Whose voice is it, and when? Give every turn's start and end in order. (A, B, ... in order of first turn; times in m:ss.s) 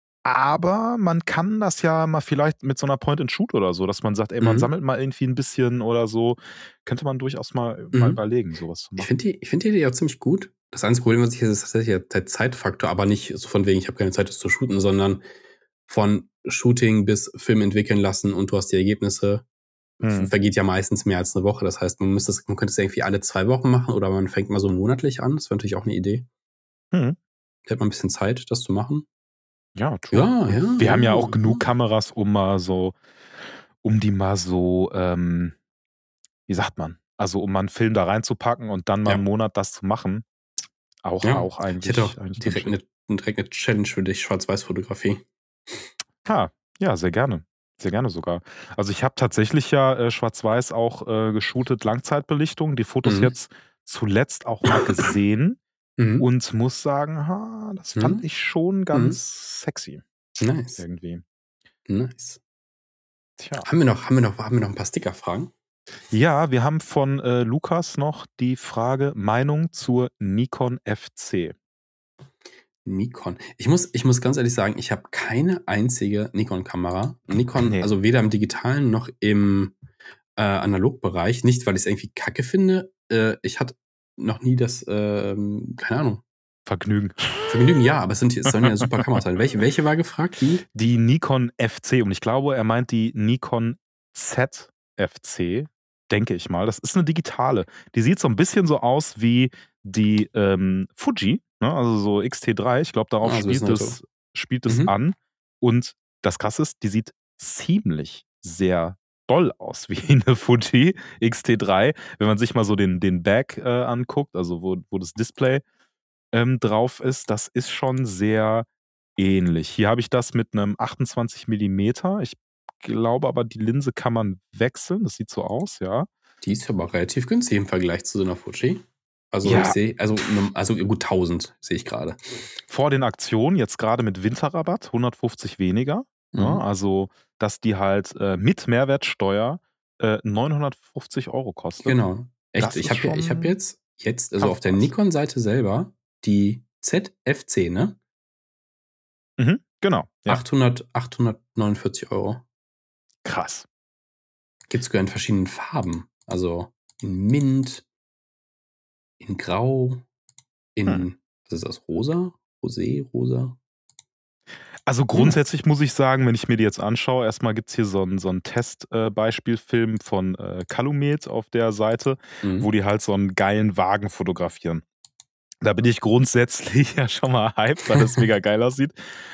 0:00.2-0:09.1 A
0:04.4-0:04.7 B
0:07.9-0:08.2 B
0:09.0-0:15.2 B
0:15.9-0:19.5 B
0:20.0-0:26.3 B
0:20.0-0:20.3 A
0:27.7-0:29.1 B
0:29.8-0:33.0 A
0:30.1-0:31.6 B
0:33.8-0:35.6 A
0:36.5-0:40.2 A
0:41.0-0:42.8 A
0:41.2-0:45.2 B
0:46.2-0:55.6 A
0:53.1-0:53.3 B
0:56.0-0:56.2 B
0:56.2-1:00.0 A
0:58.0-0:58.2 B
0:58.9-0:59.2 B
1:00.4-1:00.8 B
1:00.8-1:01.2 A
1:01.9-1:02.4 B
1:03.4-1:03.7 A
1:03.6-1:05.5 B
1:06.1-1:11.5 A
1:12.9-1:19.8 B
1:17.6-1:17.9 A
1:20.4-1:26.2 B
1:26.7-1:27.5 A
1:27.5-1:30.6 B
1:28.6-1:29.0 A
1:30.7-1:55.6 A
1:43.2-1:44.0 B
1:44.7-1:44.9 B
1:56.3-2:06.1 A
2:06.4-2:12.2 B
2:09.4-2:09.8 A
2:12.7-2:22.1 A
2:16.3-2:16.6 B
2:21.8-2:28.0 B
2:22.6-2:23.6 A
2:24.4-2:24.9 A
2:29.4-2:30.4 A
2:30.3-2:32.4 B
2:33.2-2:33.7 A
2:34.7-2:37.8 B
2:39.2-2:40.1 B
2:40.8-2:43.6 B
2:44.9-2:54.8 A
2:52.4-2:52.7 B
2:55.6-2:58.9 A